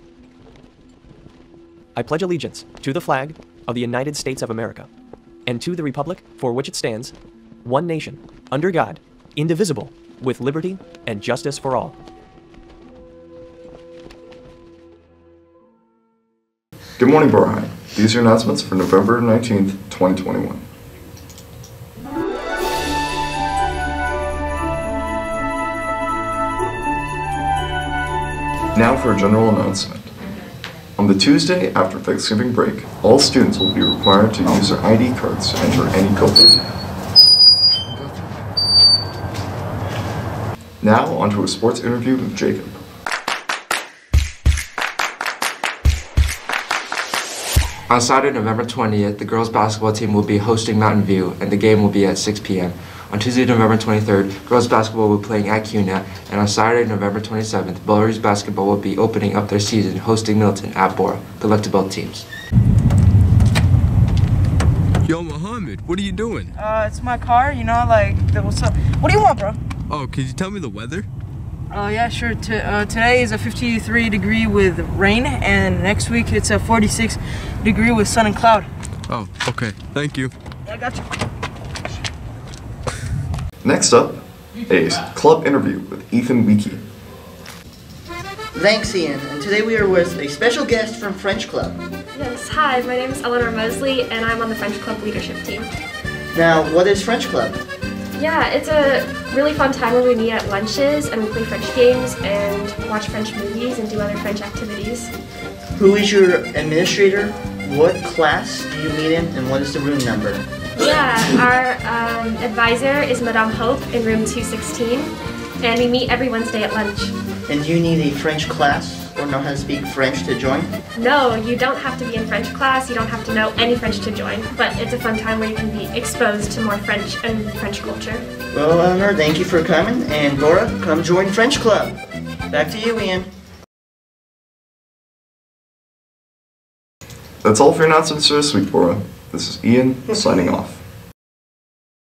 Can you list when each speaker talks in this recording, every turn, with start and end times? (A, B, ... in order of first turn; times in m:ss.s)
0:02.0-0:04.9 A
0:05.5-0:07.1 A
0:07.6-0:12.0 A
0:17.0-0:20.6 B
0:28.7-0:30.1 B
0:31.0-0:36.6 B
0:40.8-0:42.7 B
0:47.9-1:02.2 C
1:05.0-1:06.5 D
1:06.6-1:09.6 E
1:09.9-1:11.1 D
1:11.7-1:18.7 E
1:19.1-1:20.3 D
1:20.7-1:21.0 E
1:23.6-1:26.8 B
1:28.5-1:31.8 F
1:32.1-1:35.7 G
1:36.3-1:37.6 F
1:38.2-1:45.1 G
1:45.8-1:50.4 F
1:50.8-1:57.1 G
1:57.5-2:00.7 F
2:01.0-2:08.2 G
2:08.5-2:12.0 F
2:12.5-2:13.3 F
2:17.4-2:20.8 B